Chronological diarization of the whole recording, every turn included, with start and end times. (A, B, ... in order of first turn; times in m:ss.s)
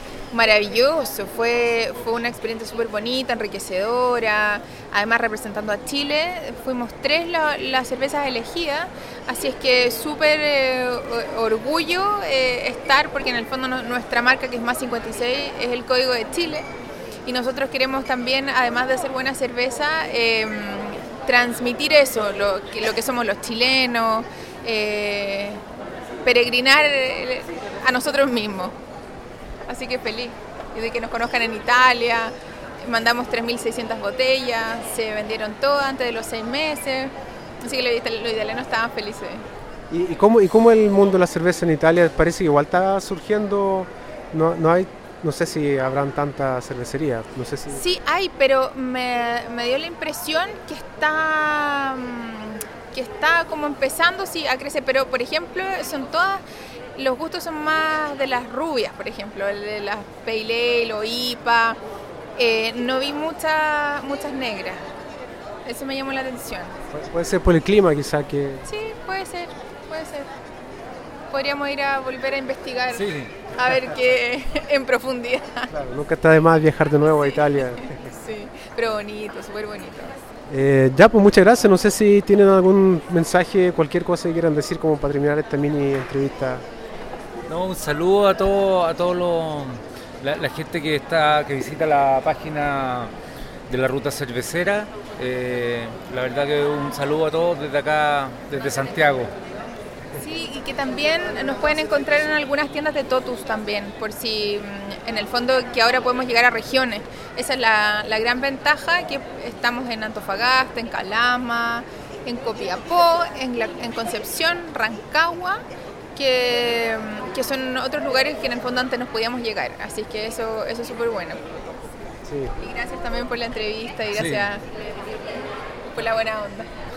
0:00.3-0:16.6 A
0:17.2-0:25.6 A
0:26.2-0:28.7 A
0:29.7-0:39.4 A
0:39.9-0:47.8 B
0:47.7-0:56.4 A
0:57.0-1:01.8 A
1:02.4-1:04.8 A
1:05.6-1:06.8 A
1:06.9-1:08.6 B
1:08.6-1:10.3 A
1:11.3-1:15.7 A
1:12.9-1:13.4 C
1:15.7-1:18.0 B
1:17.6-1:20.2 A
1:20.5-1:26.6 B
1:27.5-1:33.1 C
1:33.7-1:39.3 C
1:40.2-1:55.6 A
1:56.1-2:01.4 A
2:02.2-2:02.5 B
2:02.6-2:04.6 A
2:04.1-2:04.5 C
2:05.8-2:06.7 A